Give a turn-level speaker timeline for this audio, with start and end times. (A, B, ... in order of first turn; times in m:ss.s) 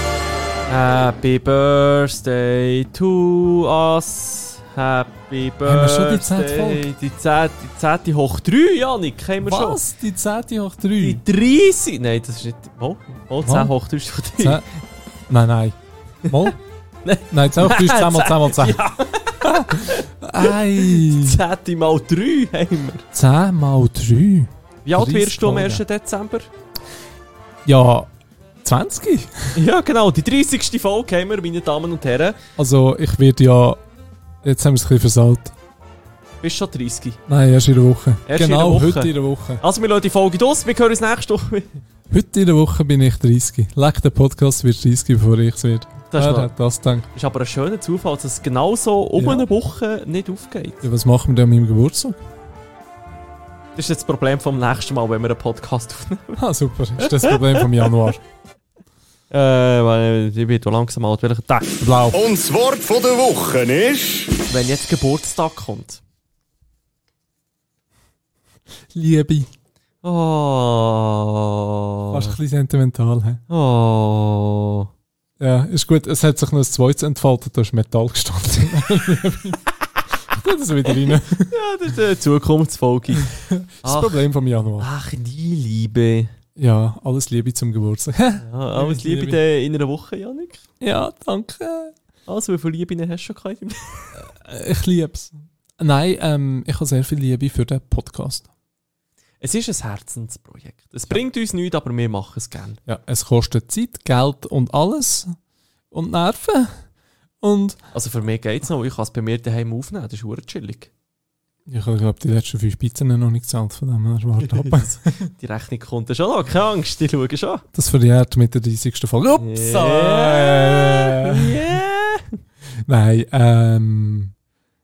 0:00.7-0:09.8 A
0:05.6-0:06.9 B
0:09.4-0:11.2 B
0:11.0-0:14.6 A
0:13.4-0:13.7 B
0:14.3-0:14.6 B
0:15.3-0:16.6 B
0:17.0-0:23.0 A
0:17.3-0:18.8 B
0:19.4-0:21.4 B
0:23.1-0:25.8 B
0:24.8-0:26.5 A
0:27.6-0:28.1 B
0:28.6-0:29.6 B
0:29.5-0:32.4 A
0:32.6-0:33.8 B
0:34.4-0:35.5 B
0:36.4-0:37.2 A
0:37.3-0:39.6 B
0:38.2-0:41.8 A
0:42.1-0:47.1 B
0:46.1-0:46.5 A
0:47.1-0:50.8 A
0:49.2-0:49.5 B
0:50.8-0:52.2 B
0:53.7-0:56.4 A
0:56.4-0:58.2 B
0:57.0-0:58.0 A
0:59.3-1:01.8 A
1:01.8-1:02.2 B
1:02.1-1:04.3 C
1:04.5-1:06.0 A
1:08.9-1:09.5 B
1:10.0-1:12.4 A
1:12.1-1:13.4 B
1:13.5-1:14.9 A
1:15.4-1:21.5 B
1:20.9-1:23.3 A
1:23.1-1:24.9 B
1:23.8-1:24.3 A
1:24.8-1:26.3 A
1:26.6-1:29.4 B
1:28.4-1:30.6 A
1:30.8-1:31.9 B
1:32.2-1:34.3 A
1:34.1-1:38.5 B
1:39.4-1:42.8 A
1:42.8-1:45.3 B
1:45.9-1:46.9 B
1:47.4-1:47.8 B
1:47.9-1:50.9 A
1:51.7-1:55.3 B
1:54.4-1:57.6 A
1:57.7-2:01.8 B
1:59.4-2:02.4 A
2:02.8-2:04.3 B